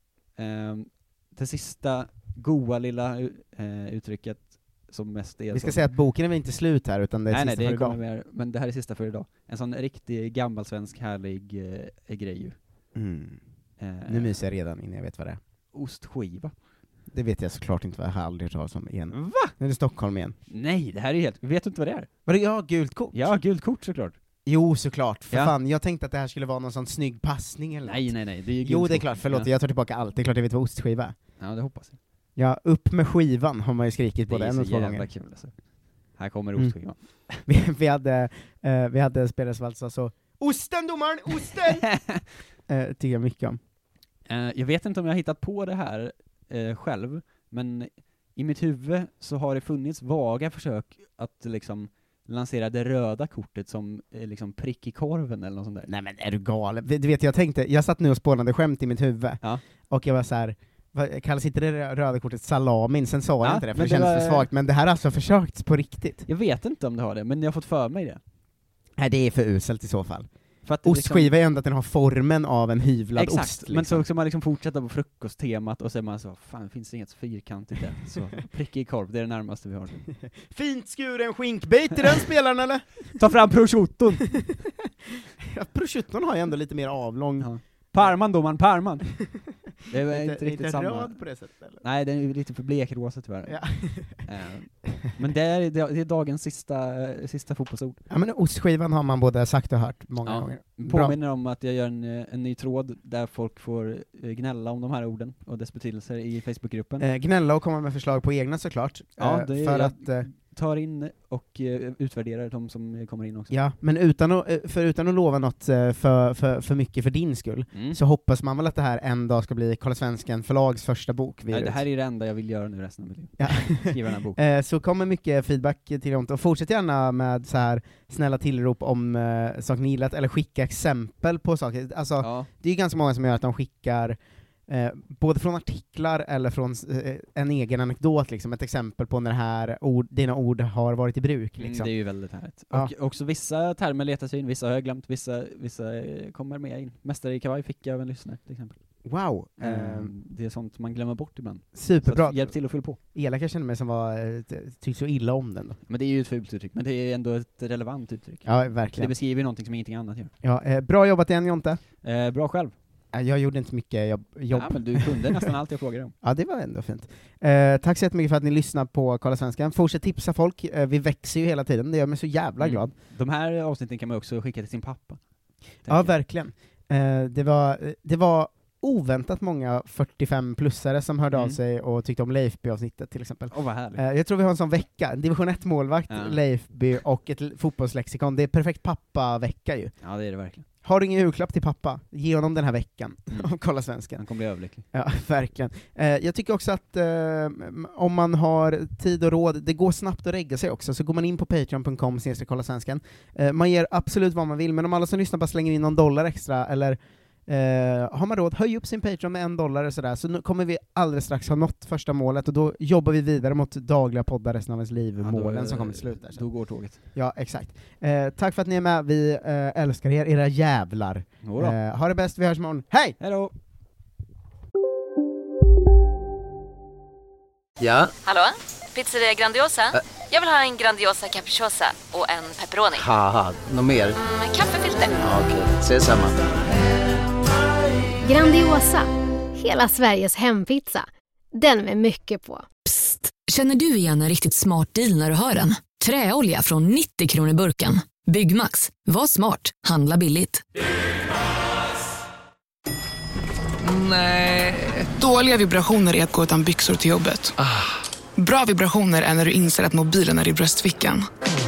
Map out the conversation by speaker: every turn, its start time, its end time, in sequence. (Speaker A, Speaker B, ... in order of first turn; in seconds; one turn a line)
Speaker A: 0.4-5.8
Speaker B: 5.5-8.0
Speaker A: 7.3-12.6
Speaker B: 12.9-13.4
Speaker A: 13.8-14.4
Speaker B: 14.1-15.4
Speaker A: 15.7-16.5
Speaker B: 17.1-20.4
Speaker A: 19.1-19.5
Speaker A: 20.5-22.1
Speaker B: 22.3-23.3
Speaker A: 23.1-24.2
Speaker B: 24.5-28.1
Speaker A: 27.8-29.5
Speaker B: 28.6-31.2
Speaker A: 31.4-32.0
Speaker B: 32.4-35.1
Speaker A: 34.3-35.5
Speaker A: 36.2-37.4
Speaker B: 37.5-41.9
Speaker A: 41.6-42.2
Speaker B: 42.7-43.6
Speaker A: 44.3-55.9
Speaker B: 55.9-66.3
Speaker A: 63.4-64.5
Speaker A: 66.3-68.2
Speaker B: 69.0-70.3
Speaker A: 70.7-71.3
Speaker B: 70.8-74.0
Speaker A: 73.2-80.0
Speaker B: 80.1-83.2
Speaker A: 83.2-84.4
Speaker B: 84.3-84.9
Speaker B: 85.4-88.2
Speaker A: 87.4-89.1
Speaker B: 89.2-91.8
Speaker A: 89.9-91.2
Speaker A: 91.8-98.0
Speaker B: 93.5-94.2
Speaker B: 98.1-101.2
Speaker A: 100.2-107.1
Speaker B: 107.0-110.3
Speaker A: 109.2-113.5
Speaker B: 113.5-121.8
Speaker A: 117.7-118.0
Speaker A: 121.5-124.4
Speaker B: 123.4-141.9
Speaker A: 132.2-132.5
Speaker A: 141.6-148.8
Speaker B: 149.1-150.1
Speaker A: 149.6-153.0
Speaker B: 151.7-152.5
Speaker B: 153.1-155.8
Speaker A: 155.9-160.3
Speaker B: 158.4-159.1
Speaker B: 160.4-161.8
Speaker A: 162.0-162.8
Speaker B: 163.1-165.5
Speaker A: 164.5-166.2
Speaker B: 166.2-172.9
Speaker A: 172.6-175.2
Speaker A: 175.8-176.2
Speaker B: 175.9-189.9
Speaker A: 183.5-184.0
Speaker A: 186.1-186.4
Speaker A: 190.0-190.7
Speaker B: 190.8-194.2
Speaker A: 194.2-194.8
Speaker B: 194.9-216.5
Speaker A: 215.2-217.0
Speaker B: 217.1-223.2
Speaker A: 221.4-221.8
Speaker A: 223.2-223.5
Speaker C: 227.8-228.1
Speaker D: 228.2-233.1
Speaker C: 233.0-234.2
Speaker D: 234.2-235.2
Speaker C: 235.2-236.4
Speaker E: 238.2-242.7
Speaker F: 242.9-250.6
Speaker G: 253.8-257.6
Speaker G: 258.4-261.3